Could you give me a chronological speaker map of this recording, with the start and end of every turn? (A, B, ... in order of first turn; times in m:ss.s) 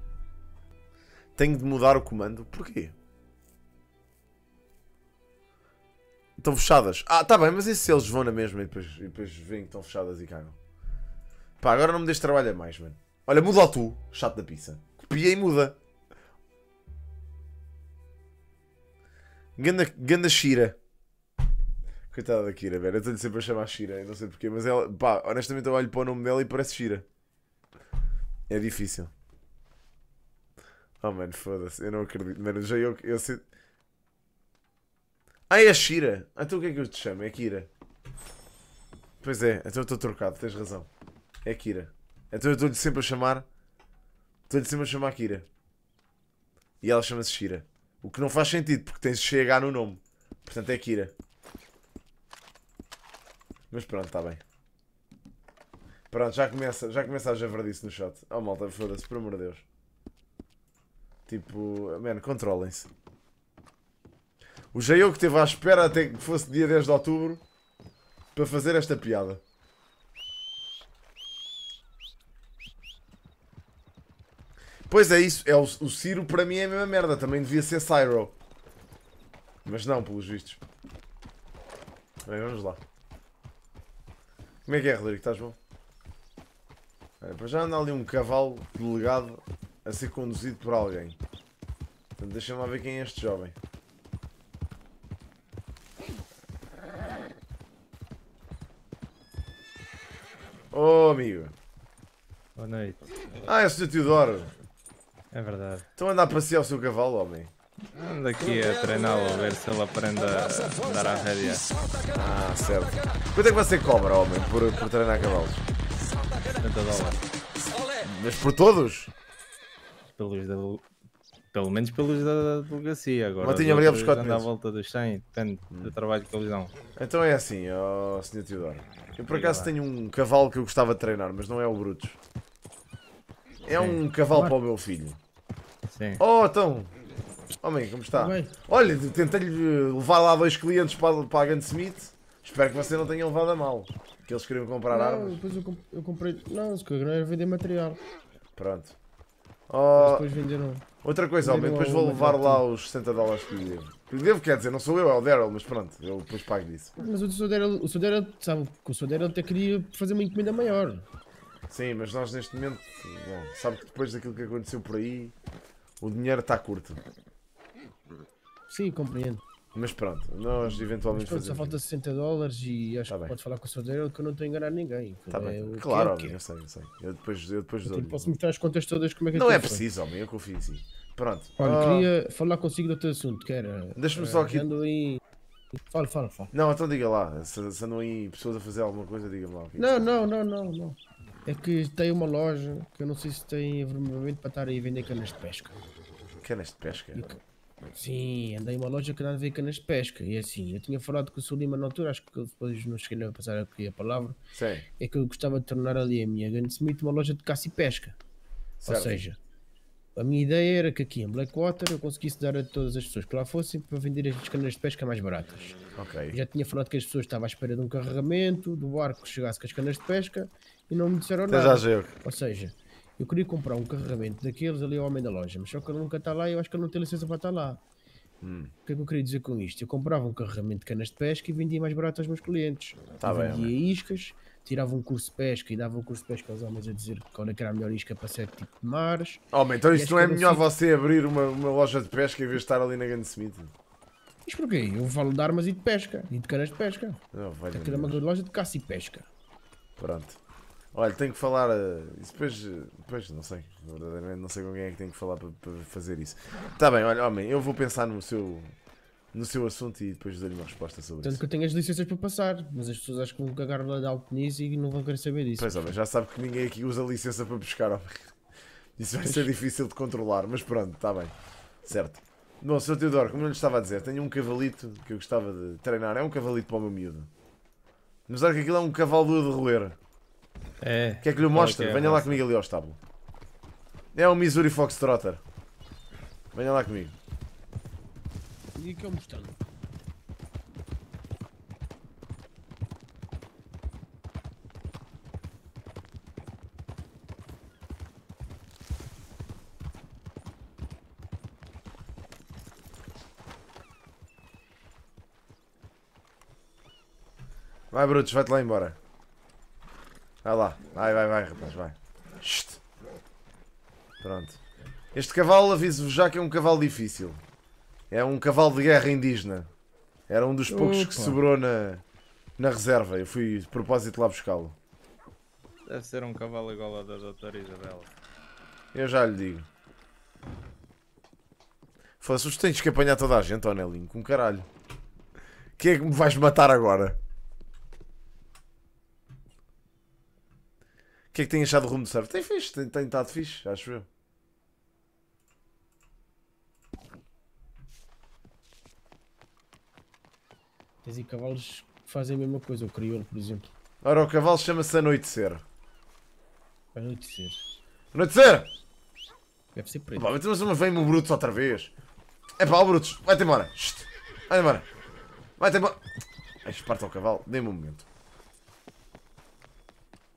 0:01.4-0:03.0 A
0:06.4-0:10.6 A
0:11.6-0:15.8 A
0:19.6-0:20.8 A
0:22.1-0:27.1 A
0:28.5-0:29.1 A
0:31.0-0:33.4 A
0:35.5-0:37.7 A
0:39.2-0:40.9 A
0:41.4-0:43.5 A
0:44.5-0:45.5 A
0:46.8-0:51.1 A
0:53.7-0:54.4 A
0:56.1-0:59.6 A
1:01.3-1:02.9 A
1:04.7-1:07.4 A
1:08.3-1:09.4 A
1:14.9-1:18.4 A
1:19.6-1:20.6 A
1:22.2-1:22.8 A
1:24.7-1:25.6 A
1:27.2-1:31.2 A
1:32.2-1:33.6 A
1:40.7-1:41.6 A
1:42.6-1:43.1 B
1:43.5-1:44.5 A
1:45.3-1:45.9 B
1:46.0-1:47.5 A
1:47.9-1:51.7 B
1:52.1-1:55.7 A
1:56.6-1:57.2 B
1:58.0-1:59.1 A
2:00.2-2:00.8 B
2:01.5-2:06.7 B
2:03.4-2:04.5 A
2:05.7-2:06.0 A
2:07.0-2:12.2 A
2:09.3-2:09.7 B
2:13.6-2:15.2 A
2:13.7-2:14.0 B
2:15.9-2:16.2 B
2:16.2-2:16.9 A
2:17.6-2:25.4 A
2:18.1-2:18.5 C
2:24.9-2:28.0 C
2:28.6-2:29.0 A
2:29.7-2:30.3 A
2:30.0-2:30.8 C
2:31.0-2:37.0 A
2:31.4-2:32.6 C
2:37.0-2:41.1 C
2:41.7-2:45.4 A
2:46.0-2:47.0 A
2:48.7-2:49.4 C
2:49.7-2:51.8 A
2:51.1-2:56.4 C
2:53.1-2:53.4 A
2:55.3-2:58.4 A
2:57.8-2:59.8 C
2:59.3-3:02.1 A
3:01.6-3:05.2 C
3:04.0-3:04.7 A
3:05.9-3:06.5 C
3:06.5-3:09.9 A
3:09.8-3:15.8 C
3:16.4-3:17.4 A
3:18.0-3:24.4 C
3:24.5-3:24.9 A
3:25.0-3:28.2 C
3:28.8-3:29.3 A
3:28.9-3:29.4 C
3:30.2-3:35.8 C
3:36.0-3:36.4 A
3:36.3-3:47.8 C
3:41.5-3:42.1 A
3:48.4-3:48.7 A
3:48.8-4:00.7 C
3:53.2-3:53.7 A
3:59.5-4:03.7 A
4:04.4-4:07.2 C
4:07.3-4:08.2 A
4:07.7-4:09.3 C
4:10.0-4:10.4 A
4:10.9-4:18.7 A
4:19.3-4:21.4 A
4:21.2-4:25.9 C
4:25.6-4:28.3 A
4:29.0-4:37.3 A
4:38.3-4:40.0 A
4:40.8-4:42.4 B
4:41.2-4:43.0 A
4:44.1-4:45.4 A
4:46.5-4:47.2 A
4:48.8-4:49.6 C
5:07.9-5:09.0 A
5:10.4-5:12.8 A
5:14.2-5:14.6 A
5:15.1-5:17.4 A
5:18.1-5:19.7 A
5:20.3-5:22.0 A
5:20.7-5:21.4 C
5:22.6-5:24.8 A
5:25.9-5:28.1 B
5:28.9-5:29.7 A
5:32.2-5:34.7 A
5:35.8-5:37.2 A
5:41.3-5:44.1 A
5:51.0-5:53.7 C
5:54.0-5:55.6 A
5:56.9-5:57.6 C
5:58.1-5:58.7 A
5:59.8-6:00.3 C
6:00.2-6:01.9 A
6:02.6-6:04.9 A
6:05.6-6:06.0 A
6:06.6-6:08.1 A